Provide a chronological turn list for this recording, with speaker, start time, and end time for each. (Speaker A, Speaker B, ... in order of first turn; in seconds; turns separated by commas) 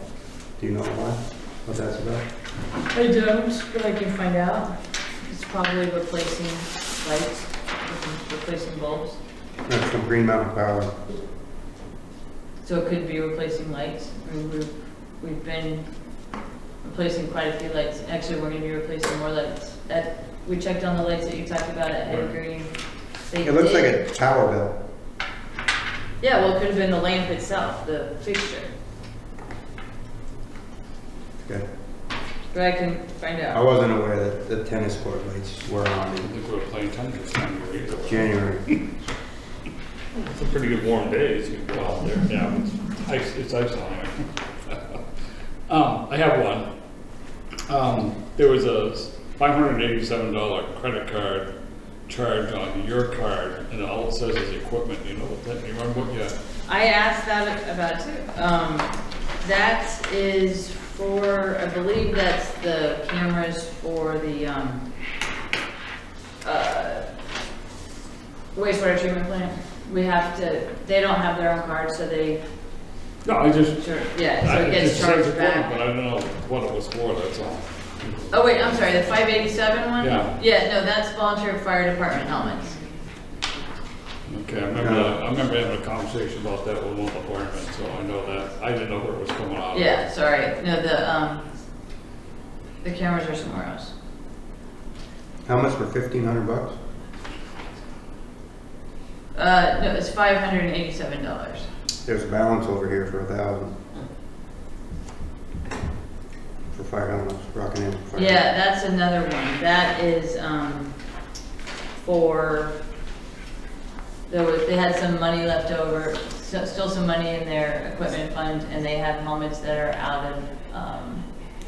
Speaker A: 0.6-2.2, Speaker B: 2.9-9.2, Speaker A: 9.7-10.9, Speaker B: 12.6-15.8, Speaker B: 16.8-22.7, Speaker B: 23.3-24.0, Speaker A: 23.4-24.8, Speaker B: 26.2-28.7, Speaker B: 32.5-33.6, Speaker A: 33.5-36.3, Speaker C: 36.2-38.8, Speaker A: 38.0-38.7, Speaker C: 40.1-45.0, Speaker C: 45.7-46.7, Speaker C: 47.7-51.5, Speaker C: 52.1-56.3, Speaker B: 56.7-64.8, Speaker B: 66.4-67.1, Speaker B: 68.5-72.4, Speaker C: 73.2-77.6, Speaker B: 73.8-75.7, Speaker B: 78.3-82.8, Speaker C: 80.0-80.3, Speaker C: 84.3-90.0, Speaker A: 84.8-85.2, Speaker B: 89.7-91.4, Speaker B: 92.8-93.9, Speaker A: 95.5-96.8, Speaker B: 99.3-101.7, Speaker A: 102.0-103.8, Speaker A: 106.7-108.4, Speaker B: 108.1-110.9, Speaker B: 112.0-112.8, Speaker B: 114.3-121.3